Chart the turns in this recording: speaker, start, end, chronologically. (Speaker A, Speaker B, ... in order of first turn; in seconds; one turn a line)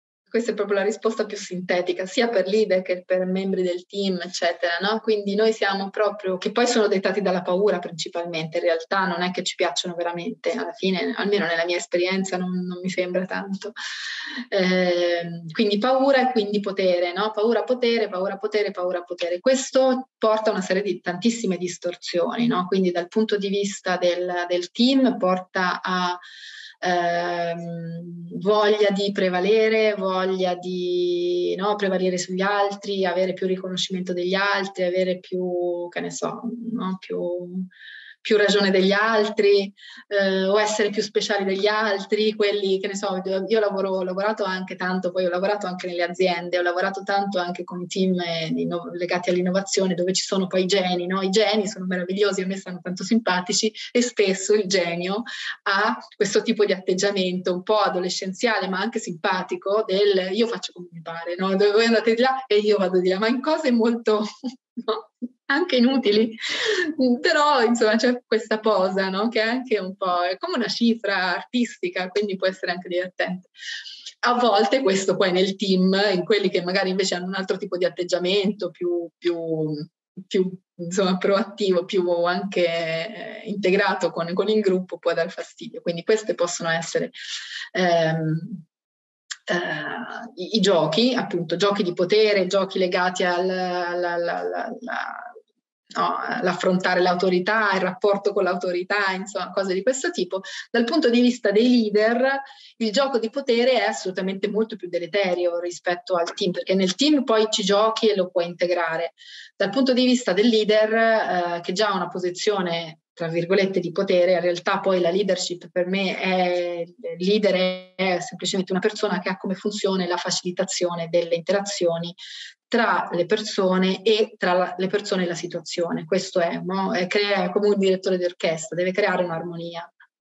Speaker A: 0.3-13.8
Speaker A: 14.5-26.2
Speaker A: 26.8-37.7
Speaker A: 38.2-73.5
Speaker A: 74.2-87.1
Speaker A: 87.7-88.6
Speaker A: 89.5-95.4
Speaker A: 96.0-122.2
Speaker A: 122.7-129.9